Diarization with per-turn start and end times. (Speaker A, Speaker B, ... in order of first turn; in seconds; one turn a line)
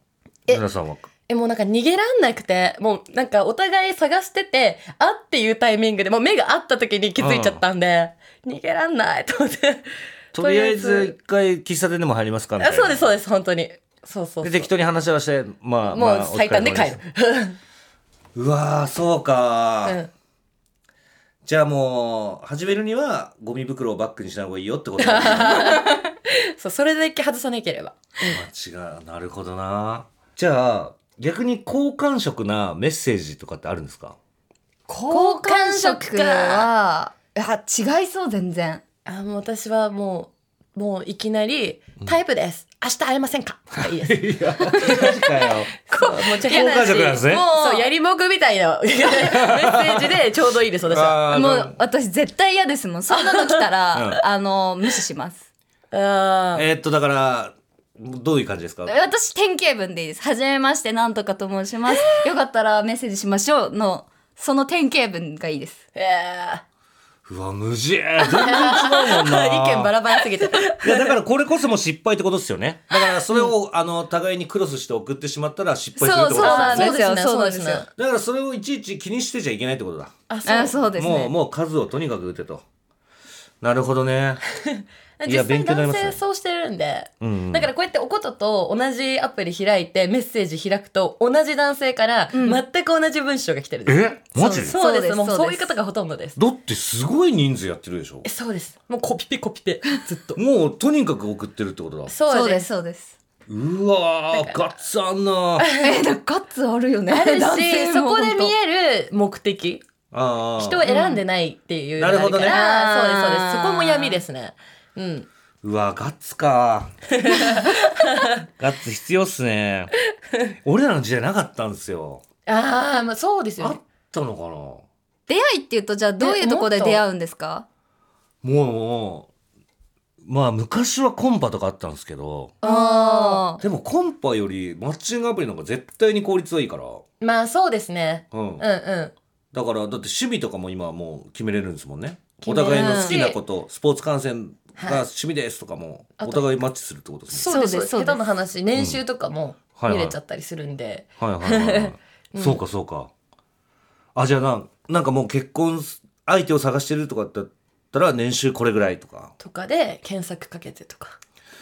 Speaker A: 0.5-1.1
Speaker B: 1.3-11.1
Speaker A: 7.2-7.6
Speaker A: 10.3-13.1
Speaker B: 12.6-14.7
Speaker A: 14.4-17.0
Speaker B: 15.9-17.6
Speaker A: 18.3-20.0
Speaker B: 19.8-20.1
Speaker A: 21.4-25.7
Speaker B: 25.0-28.4
Speaker C: 25.7-26.0
Speaker A: 28.2-34.2
Speaker B: 34.9-36.7
Speaker C: 35.1-38.8
Speaker B: 39.0-45.3
Speaker A: 43.7-45.7
Speaker C: 44.9-47.9
Speaker B: 45.9-51.2
Speaker A: 46.2-47.5
Speaker A: 49.1-50.2
Speaker A: 50.8-51.8
Speaker C: 51.3-55.4
Speaker B: 53.1-53.7
Speaker A: 53.9-54.2
Speaker B: 55.9-56.6
Speaker A: 56.5-58.9
Speaker C: 58.9-65.8
Speaker B: 65.9-66.6
Speaker A: 67.2-70.0
Speaker B: 68.2-71.2
Speaker A: 70.6-77.0
Speaker C: 76.0-77.8
Speaker B: 76.4-77.9
Speaker A: 78.0-80.1
Speaker B: 80.3-81.0
Speaker C: 80.4-81.3
Speaker A: 80.9-82.6
Speaker A: 83.6-84.4
Speaker B: 84.8-96.4
Speaker A: 85.2-86.2
Speaker A: 87.2-87.7
Speaker C: 92.3-92.6
Speaker A: 93.8-94.8
Speaker C: 94.5-95.8
Speaker A: 96.4-98.2
Speaker B: 98.2-100.4
Speaker A: 100.3-102.1
Speaker B: 102.1-102.7
Speaker C: 102.3-103.1
Speaker A: 103.5-105.7
Speaker B: 104.3-104.7
Speaker B: 105.6-105.9
Speaker C: 105.8-108.5
Speaker B: 107.1-109.8
Speaker A: 110.1-110.8
Speaker B: 110.6-115.3
Speaker C: 110.8-111.2
Speaker A: 112.0-112.6
Speaker C: 112.4-114.2
Speaker A: 115.6-116.9
Speaker B: 117.1-118.3
Speaker A: 118.5-119.9
Speaker A: 120.6-122.2
Speaker B: 122.5-123.8
Speaker A: 123.6-124.8
Speaker C: 125.3-127.7
Speaker B: 126.2-127.0
Speaker A: 128.4-129.3
Speaker A: 130.2-132.5
Speaker B: 132.6-133.5
Speaker C: 132.6-133.6
Speaker A: 133.6-137.0
Speaker B: 137.2-139.1
Speaker A: 138.3-138.6
Speaker A: 139.5-147.5
Speaker B: 142.4-143.3
Speaker C: 142.7-143.3
Speaker B: 144.8-145.0
Speaker B: 146.2-146.5
Speaker B: 147.3-152.6
Speaker C: 147.4-148.3
Speaker A: 148.7-149.0
Speaker A: 149.8-150.2
Speaker A: 151.2-153.1
Speaker A: 154.1-159.3
Speaker B: 159.4-161.1